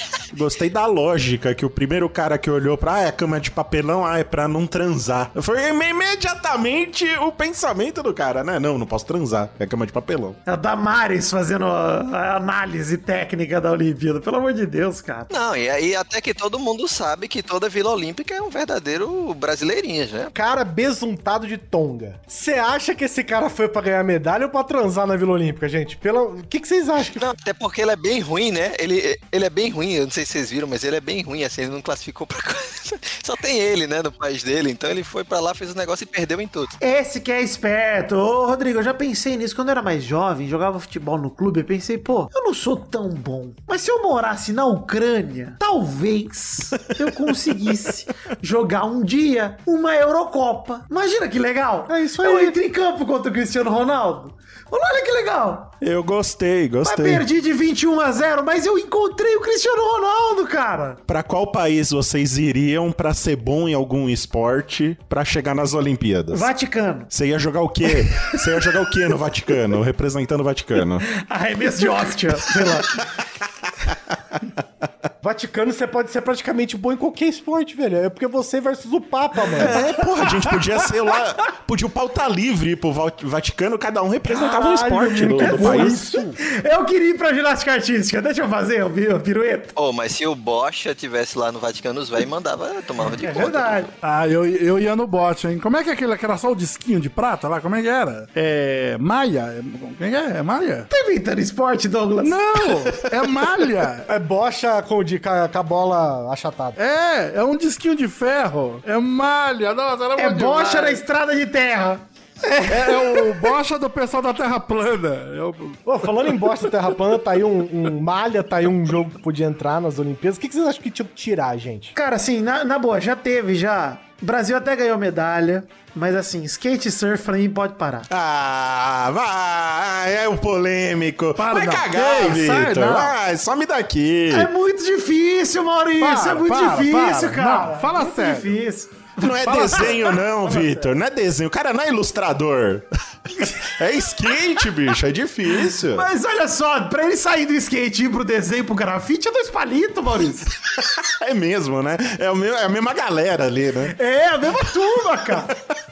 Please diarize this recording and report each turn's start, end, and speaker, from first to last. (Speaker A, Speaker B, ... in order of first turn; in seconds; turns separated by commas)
Speaker A: 0.3-10.4, Speaker B: 10.4-15.3, Speaker C: 15.3-20.3, Speaker D: 20.3-27.3, Speaker C: 27.1-36.7, Speaker B: 36.8-55.7, Speaker D: 51.9-52.6, Speaker A: 55.8-57.2, Speaker B: 56.9-61.0, Speaker A: 61.1-66.5, Speaker B: 66.3-67.1, Speaker A: 67.1-71.0, Speaker B: 68.0-68.5, Speaker B: 71.1-73.0, Speaker D: 75.2-79.8, Speaker B: 79.6-80.6, Speaker A: 79.6-86.1, Speaker D: 84.3-86.4, Speaker B: 85.2-89.7, Speaker C: 89.8-93.9, Speaker B: 93.1-93.9, Speaker E: 94.0-100.9, Speaker B: 100.9-102.4, Speaker E: 102.2-104.1, Speaker D: 104.1-106.8, Speaker E: 106.8-111.0, Speaker B: 110.2-113.4, Speaker E: 112.7-116.7, Speaker D: 115.8-122.0, Speaker B: 122.0-128.1, Speaker A: 128.1-134.5, Speaker E: 131.4-133.2, Speaker B: 134.3-140.1, Speaker E: 136.0-138.6, Speaker A: 139.2-142.8, Speaker E: 139.4-140.1, Speaker A: 143.8-146.1, Speaker B: 145.6-150.5, Speaker A: 150.8-153.9, Speaker B: 153.8-155.5